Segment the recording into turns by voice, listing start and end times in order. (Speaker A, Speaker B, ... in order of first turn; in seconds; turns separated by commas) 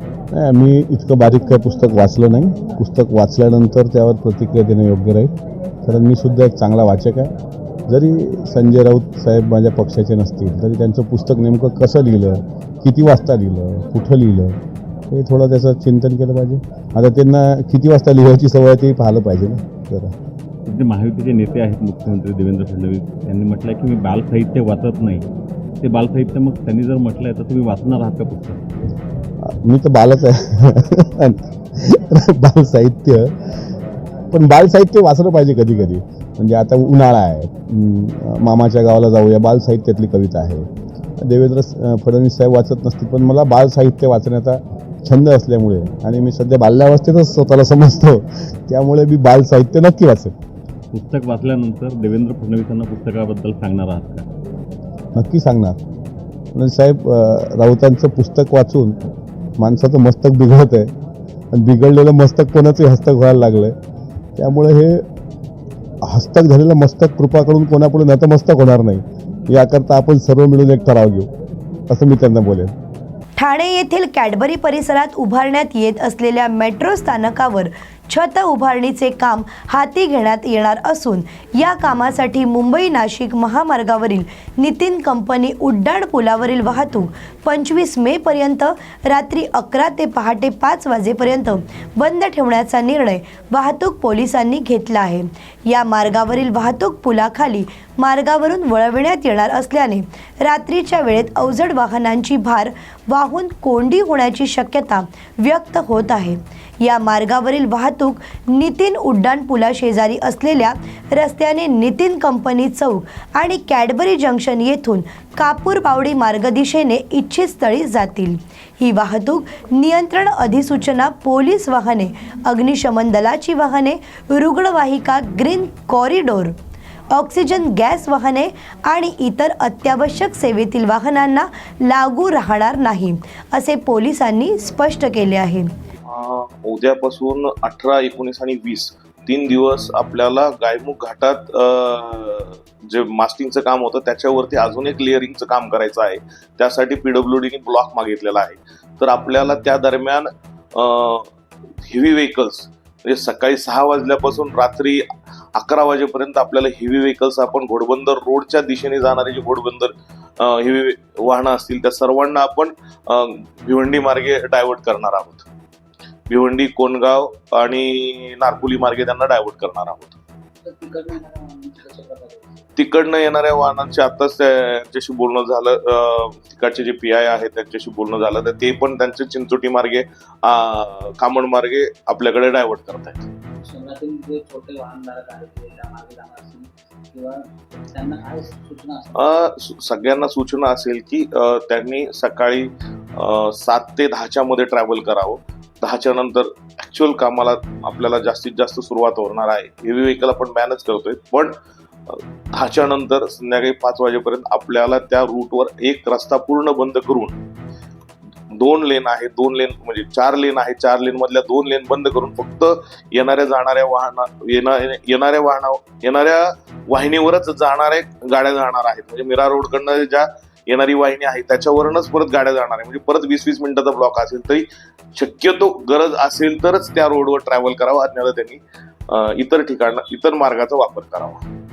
Speaker A: 0.3-7.3, Speaker A: 7.9-20.1, Speaker B: 20.6-25.2, Speaker B: 25.8-28.6, Speaker A: 29.4-33.4, Speaker A: 34.3-40.7, Speaker A: 41.2-50.3, Speaker B: 50.9-54.2, Speaker A: 55.1-55.8, Speaker A: 56.5-59.0, Speaker A: 59.6-60.9, Speaker A: 61.5-63.7, Speaker A: 64.3-65.0, Speaker A: 66.0-71.3, Speaker A: 71.9-72.7, Speaker C: 73.4-126.5, Speaker C: 127.1-135.7, Speaker D: 136.1-151.3, Speaker D: 151.8-165.5, Speaker D: 166.3-170.2, Speaker E: 170.6-172.6, Speaker D: 172.8-183.2, Speaker E: 183.6-189.1, Speaker D: 189.2-201.6, Speaker D: 202.1-207.4, Speaker D: 208.6-231.4